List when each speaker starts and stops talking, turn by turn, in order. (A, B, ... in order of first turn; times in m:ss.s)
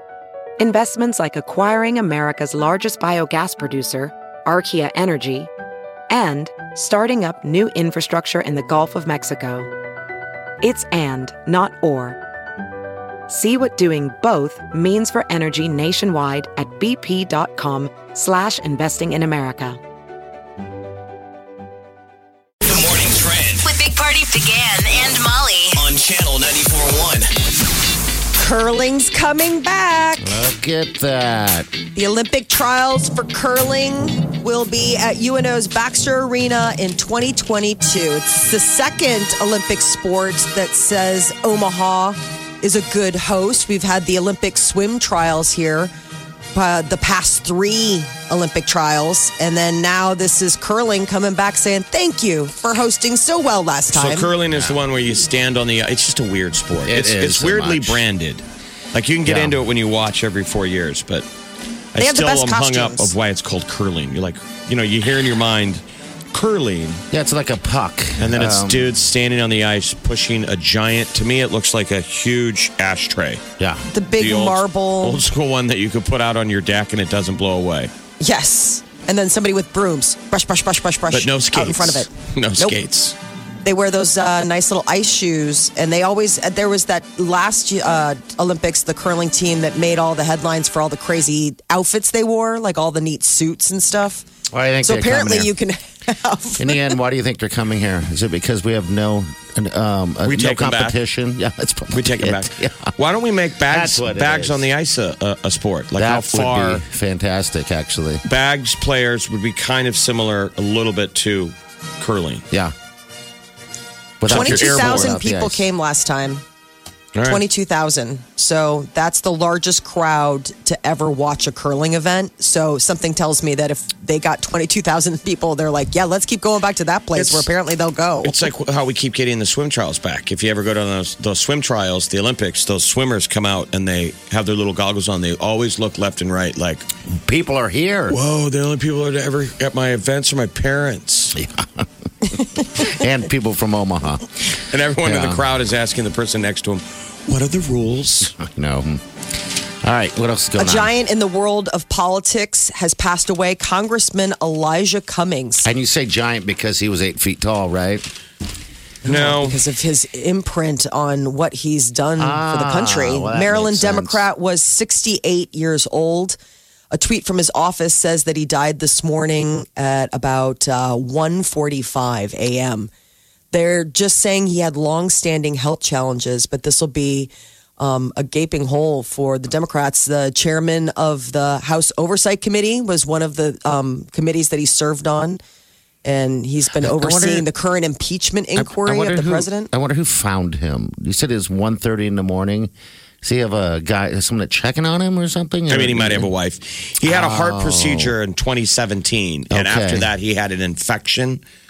0:00.6-0:05.5 A
0:06.1-0:09.7 A
0:10.6-0:12.2 A
0:13.3-0:19.8 A
0:22.6-0:23.7 B
0:23.6-0:25.8 C
0:25.7-0:27.3 B
0:28.4-0:30.4 D
0:30.2-0:31.7 E
0:31.9-0:45.9 D
0:46.5-0:54.3 D
0:53.9-1:01.3 F
0:54.5-0:54.8 E
0:56.8-0:58.0 E
0:59.2-0:59.6 E
1:01.9-1:07.0 F
1:02.0-1:03.1 D
1:07.1-1:08.9 E
1:08.2-1:13.4 F
1:13.9-1:15.2 D
1:14.2-1:17.9 F
1:18.2-1:22.8 D
1:21.1-1:23.2 F
1:23.6-1:34.2 D
1:34.5-1:35.5 E
1:34.8-1:36.9 D
1:36.6-1:42.9 E
1:40.2-1:41.0 F
1:41.9-1:46.8 F
1:43.6-1:44.7 E
1:45.9-1:48.2 E
1:48.2-1:52.4 F
1:54.2-1:55.7 E
1:54.2-1:55.2 F
1:54.2-1:56.4 D
1:57.1-1:57.4 F
1:57.2-2:08.5 D
2:07.1-2:07.5 F
2:08.2-2:16.9 F
2:17.2-2:18.2 E
2:18.1-2:21.4 F
2:21.3-2:21.9 E
2:22.8-2:24.2 E
2:24.5-2:28.3 F
2:25.0-2:25.5 E
2:28.3-2:29.0 E
2:29.8-2:30.9 E
2:30.6-2:35.7 D
2:35.6-2:38.0 E
2:39.0-2:46.4 D
2:39.0-2:39.6 F
2:42.2-2:44.2 E
2:46.9-2:52.9 D
2:53.5-3:05.4 D
3:06.0-3:09.7 D
3:06.8-3:07.5 E
3:08.6-3:12.7 E
3:13.2-3:16.3 E
3:15.7-3:21.4 F
3:17.0-3:18.2 E
3:19.5-3:20.1 E